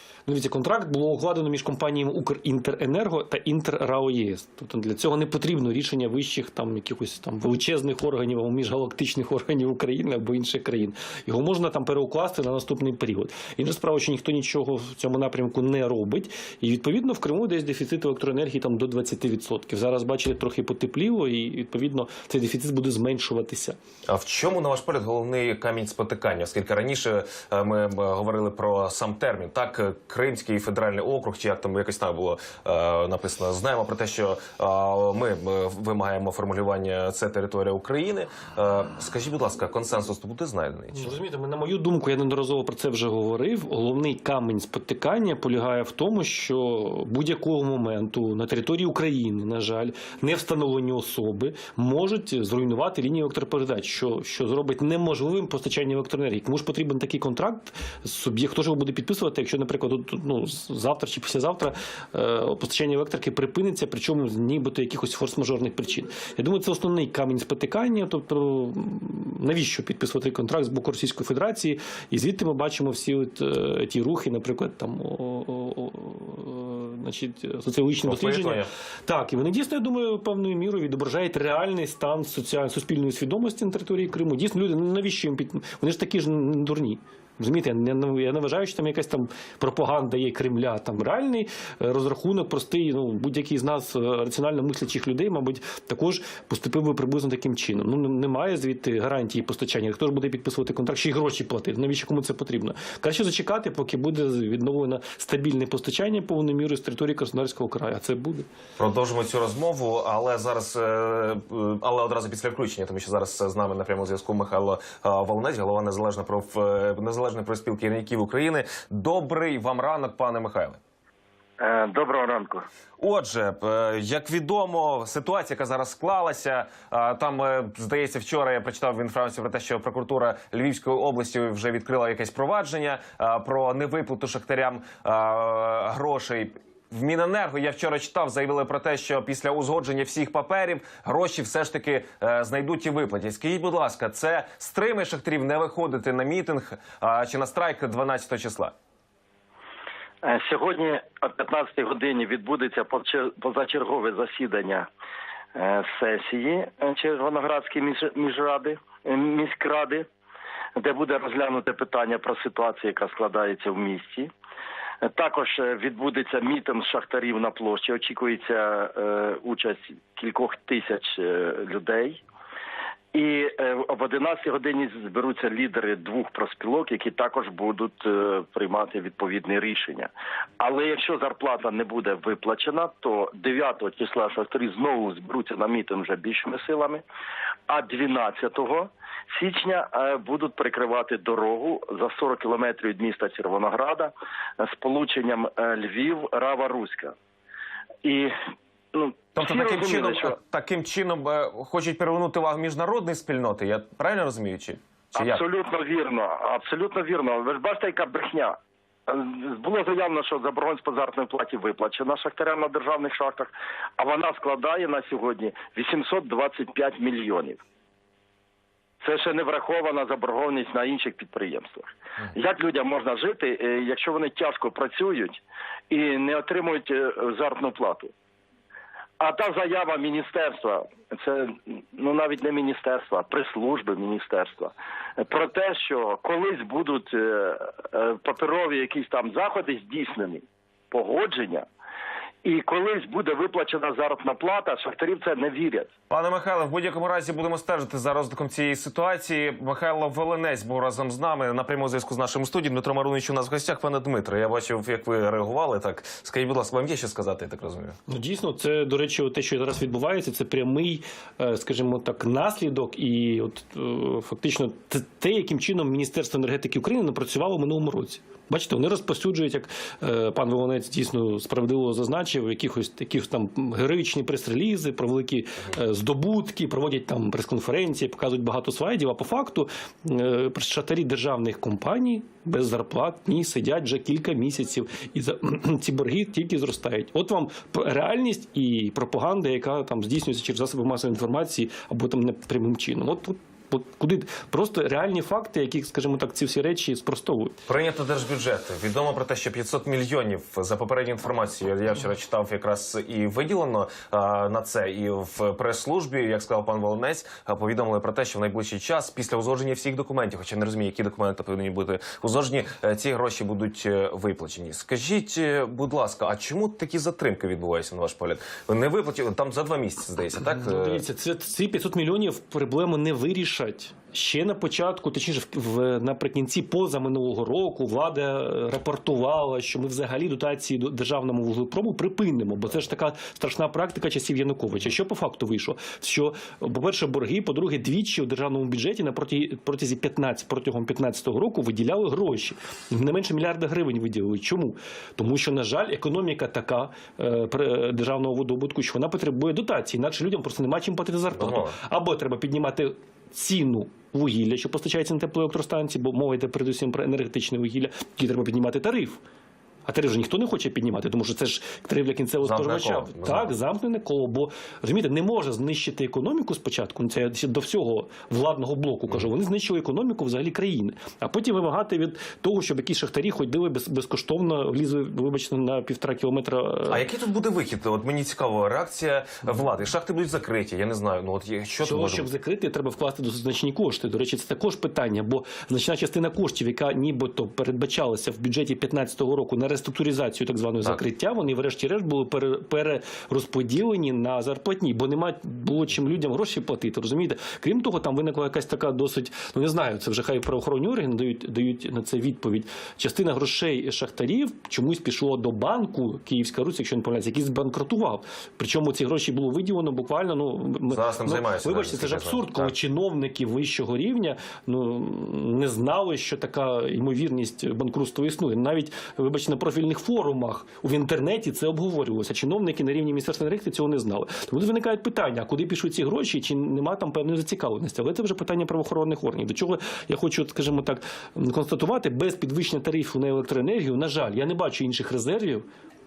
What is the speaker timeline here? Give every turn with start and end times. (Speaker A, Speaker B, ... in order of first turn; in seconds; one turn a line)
Speaker A: 0.3-23.8
Speaker B: 24.1-41.2
Speaker A: 40.9-108.5
Speaker B: 78.0-78.7
Speaker B: 108.8-120.8
Speaker C: 121.6-122.7
Speaker B: 123.0-148.7
Speaker C: 150.2-154.9
Speaker C: 155.6-160.1
Speaker C: 160.8-164.3
Speaker C: 165.0-172.2
Speaker C: 173.1-187.0
Speaker C: 187.7-197.1
Speaker C: 198.0-198.3
Speaker C: 198.9-200.4
Speaker B: 199.4-205.4
Speaker C: 205.2-208.6
Speaker C: 209.1-217.6
Speaker C: 219.0-228.1
Speaker C: 229.2-241.7
Speaker C: 242.4-245.9
Speaker B: 246.1-258.0
Speaker A: 258.1-297.6
Speaker B: 297.7-321.0
Speaker A: 320.5-359.2
Speaker B: 351.3-351.8
Speaker A: 359.9-377.0
Speaker B: 362.4-363.6
Speaker B: 376.9-382.3
Speaker A: 381.8-435.6
Speaker B: 410.9-412.7